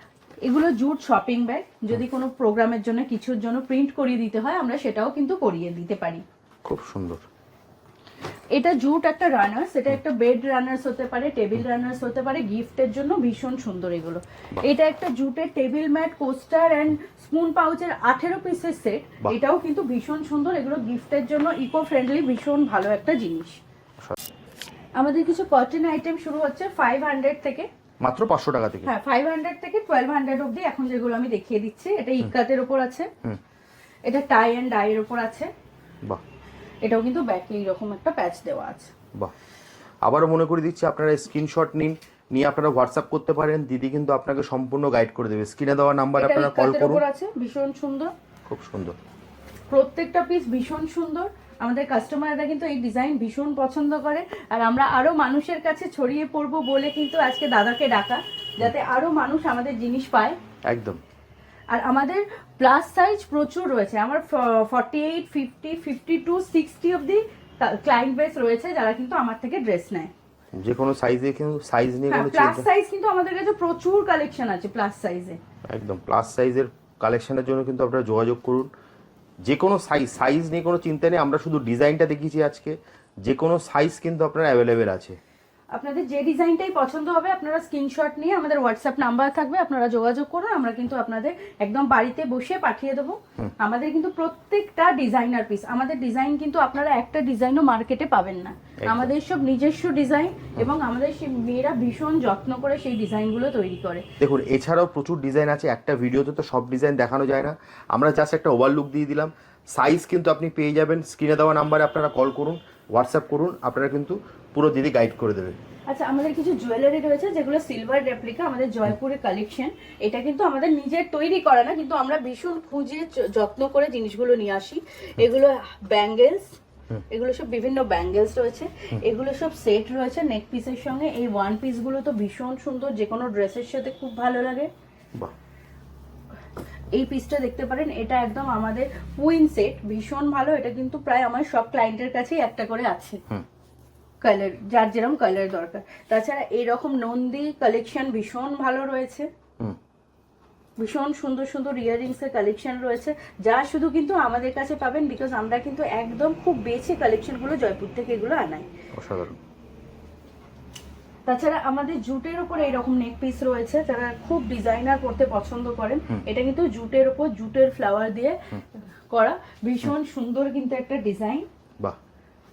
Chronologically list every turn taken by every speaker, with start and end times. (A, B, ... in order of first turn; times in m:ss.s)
0:00.4-0:06.2 A
0:06.6-0:07.2 B
0:08.5-0:23.6 A
0:25.0-0:27.7 A
0:28.0-0:28.9 B
0:28.8-0:33.1 A
0:34.0-0:35.5 A
0:36.8-0:38.9 A
0:40.0-0:47.0 B
0:46.2-0:48.1 A
0:48.4-0:49.0 B
0:49.7-1:00.4 A
1:00.7-1:01.0 B
1:01.7-1:10.1 A
1:10.5-1:12.7 B
1:12.1-1:15.4 A
1:15.7-1:18.7 B
1:19.4-1:25.2 B
1:25.7-1:44.0 A
1:38.8-1:39.1 B
1:44.2-1:55.6 B
1:55.9-2:06.6 A
2:07.1-2:14.7 A
2:16.9-2:23.2 A
2:24.2-2:29.3 A
2:30.8-2:38.7 A
2:39.0-2:39.4 B
2:41.2-2:51.4 A